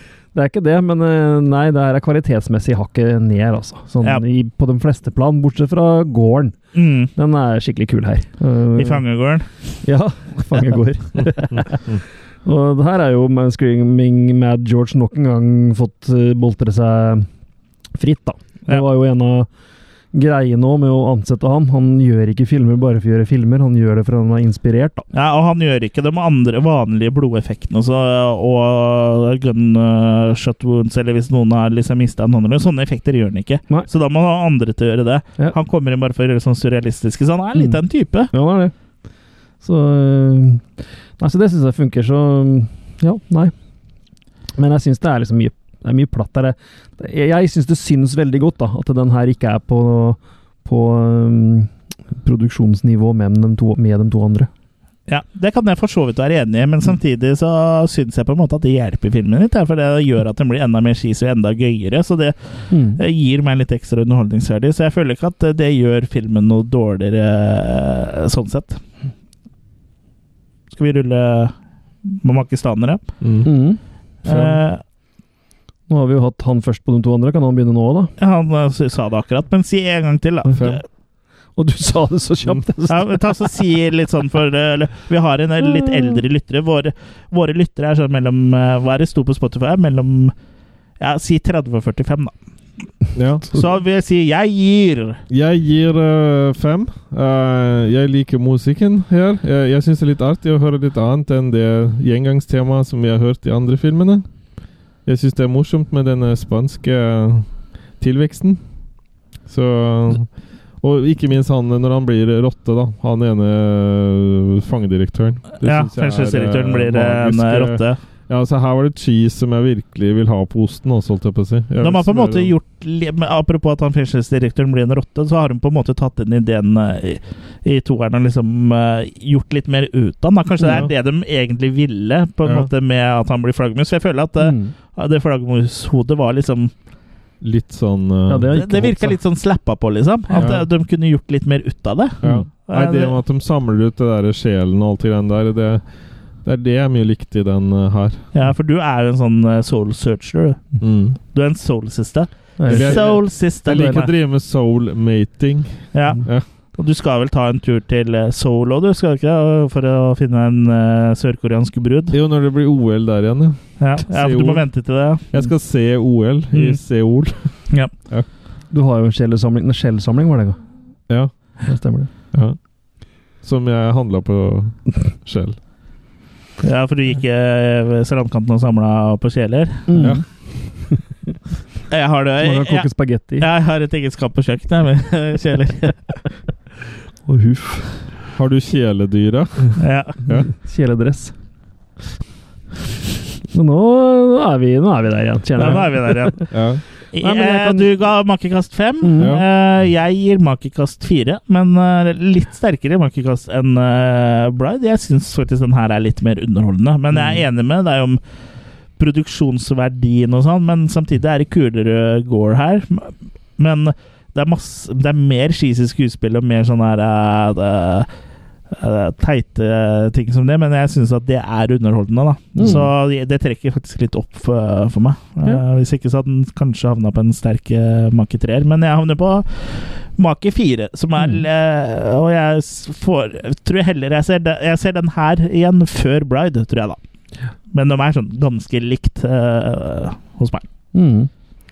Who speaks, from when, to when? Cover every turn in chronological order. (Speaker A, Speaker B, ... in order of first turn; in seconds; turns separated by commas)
Speaker A: 0.3-6.6, Speaker B: 6.7-7.1, Speaker A: 7.1-9.0, Speaker B: 8.7-9.5, Speaker A: 9.8-11.8, Speaker A: 12.4-17.3, Speaker A: 17.9-19.5, Speaker A: 20.1-25.1, Speaker B: 25.1-38.3, Speaker A: 37.5-38.7, Speaker A: 39.6-43.5, Speaker A: 44.5-54.5, Speaker B: 55.1-68.8, Speaker A: 62.7-63.0, Speaker B: 70.7-73.0, Speaker C: 73.2-73.5, Speaker A: 73.4-73.8, Speaker B: 74.2-74.8, Speaker C: 74.2-74.6, Speaker A: 75.9-78.1, Speaker B: 78.2-80.8, Speaker C: 80.5-80.8, Speaker A: 81.5-83.5, Speaker B: 82.9-90.3, Speaker A: 85.6-86.2, Speaker B: 91.0-92.3, Speaker C: 93.1-93.6, Speaker B: 93.5-95.2, Speaker C: 95.3-104.3, Speaker C: 105.0-108.6, Speaker C: 109.4-122.5, Speaker B: 115.6-118.0, Speaker B: 121.8-136.7, Speaker A: 130.6-130.9, Speaker C: 132.4-132.7, Speaker A: 134.4-134.7, Speaker C: 137.4-138.7, Speaker A: 138.3-139.2, Speaker B: 138.5-143.2, Speaker C: 140.3-140.7, Speaker C: 142.2-145.8, Speaker C: 146.4-148.3, Speaker B: 148.3-154.1, Speaker C: 150.8-151.2, Speaker A: 152.6-154.0, Speaker C: 152.7-156.4, Speaker B: 155.9-162.1, Speaker C: 162.1-168.3, Speaker B: 163.8-165.2, Speaker B: 166.5-166.8, Speaker A: 168.7-170.6, Speaker C: 171.1-171.6, Speaker A: 171.6-172.1, Speaker C: 172.3-175.6, Speaker B: 176.6-179.9, Speaker A: 179.9-181.0, Speaker C: 180.0-180.2, Speaker B: 181.9-186.0, Speaker A: 182.4-183.5, Speaker A: 187.2-187.9, Speaker C: 188.3-190.5, Speaker B: 189.8-190.2, Speaker A: 190.3-191.3, Speaker A: 193.5-196.5, Speaker B: 195.6-196.6, Speaker C: 196.5-196.8, Speaker B: 197.1-208.2, Speaker A: 197.2-197.9, Speaker A: 199.0-199.4, Speaker C: 207.1-207.4, Speaker B: 209.0-218.1, Speaker B: 218.7-237.0, Speaker A: 222.6-222.9, Speaker A: 231.2-231.4, Speaker B: 237.7-240.6, Speaker A: 240.9-241.3